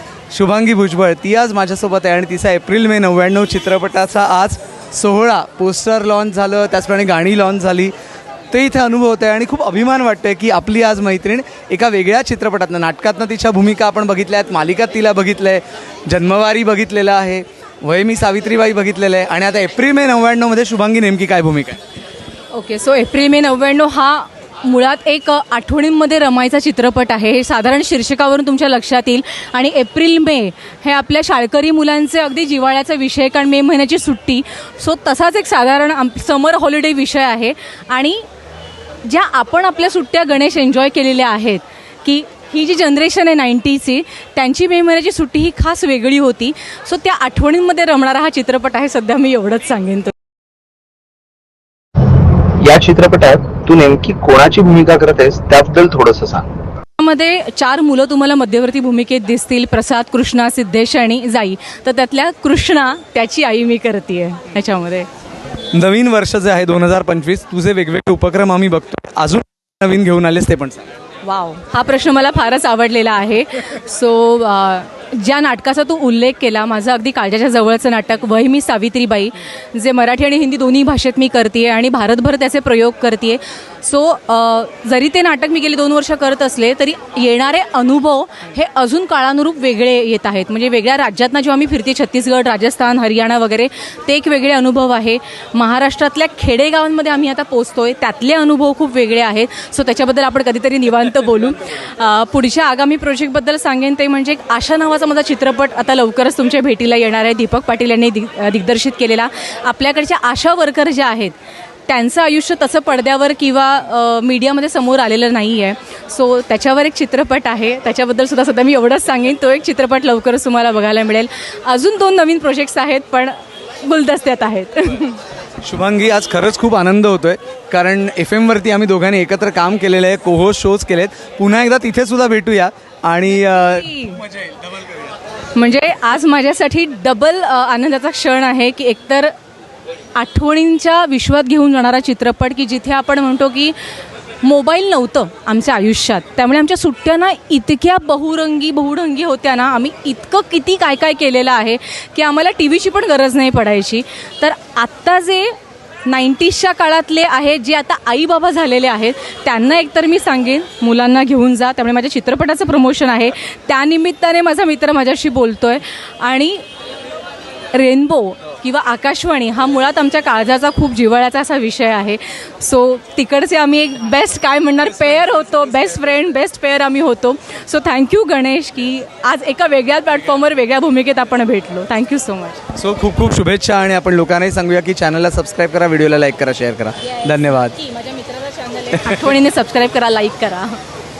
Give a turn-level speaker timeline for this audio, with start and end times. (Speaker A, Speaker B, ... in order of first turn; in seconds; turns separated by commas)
Speaker A: 0.3-7.9, Speaker A: 8.5-21.8, Speaker B: 22.5-38.2, Speaker B: 39.0-50.1, Speaker C: 52.5-56.5, Speaker B: 57.0-65.1, Speaker A: 65.7-70.8, Speaker B: 71.2-111.3, Speaker B: 111.9-125.2, Speaker A: 125.6-134.8, Speaker B: 133.4-134.2, Speaker B: 135.5-139.3, Speaker B: 140.1-143.8, Speaker B: 144.4-155.5, Speaker B: 156.1-166.6, Speaker B: 167.7-182.6, Speaker A: 182.7-187.8, Speaker B: 187.0-190.8